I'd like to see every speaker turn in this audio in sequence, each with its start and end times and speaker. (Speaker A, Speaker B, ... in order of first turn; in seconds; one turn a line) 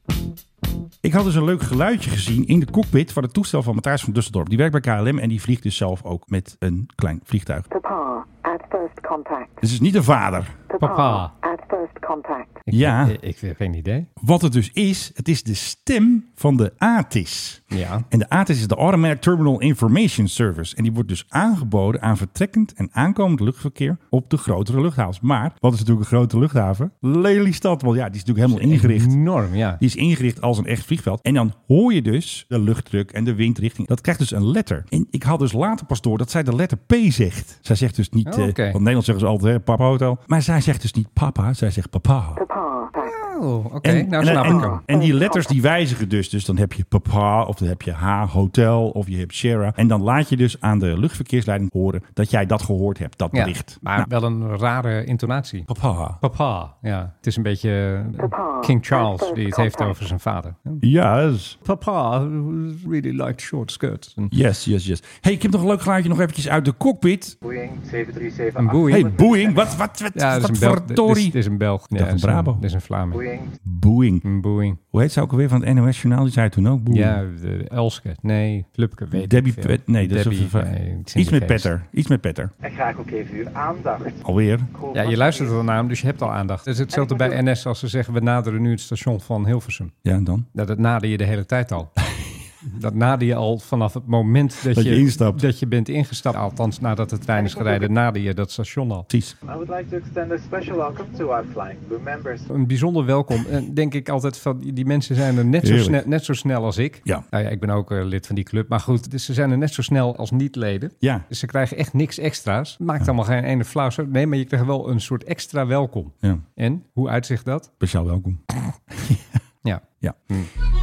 Speaker A: 1.0-7.7
Speaker B: 7.7-9.6
Speaker A: 9.6-10.5
Speaker B: 10.7-12.7
Speaker C: 10.8-11.3
Speaker C: 12.7-14.1
Speaker A: 12.7-13.1
Speaker A: 14.2-29.2
Speaker C: 17.7-18.1
Speaker C: 28.5-29.8
Speaker A: 29.8-42.4
Speaker C: 38.2-38.8
Speaker B: 42.4-43.2
Speaker C: 43.0-45.1
Speaker A: 43.8-54.1
Speaker B: 44.3-44.7
Speaker C: 53.3-55.7
Speaker A: 55.7-56.2
Speaker C: 56.2-60.8
Speaker B: 58.2-60.0
Speaker A: 60.8-61.6
Speaker C: 61.6-64.3
Speaker A: 64.3-67.3
Speaker D: 67.4-69.7
Speaker C: 68.6-69.2
Speaker A: 68.9-71.4
Speaker C: 70.1-73.2
Speaker A: 71.9-72.6
Speaker D: 73.1-73.6
Speaker A: 73.6-74.2
Speaker C: 74.2-74.8
Speaker A: 74.9-77.2
Speaker C: 76.9-81.7
Speaker A: 79.1-82.5
Speaker D: 82.6-84.2
Speaker A: 84.2-84.7
Speaker D: 84.7-85.6
Speaker C: 84.9-89.9
Speaker D: 86.9-87.4
Speaker A: 90.0-90.5
Speaker C: 90.5-91.9
Speaker C: 92.6-99.1
Speaker A: 94.7-95.4
Speaker D: 97.3-97.9
Speaker A: 99.1-99.3
Speaker D: 99.5-102.5
Speaker C: 102.5-117.7
Speaker A: 105.6-106.0
Speaker A: 117.8-119.2
Speaker C: 119.6-120.5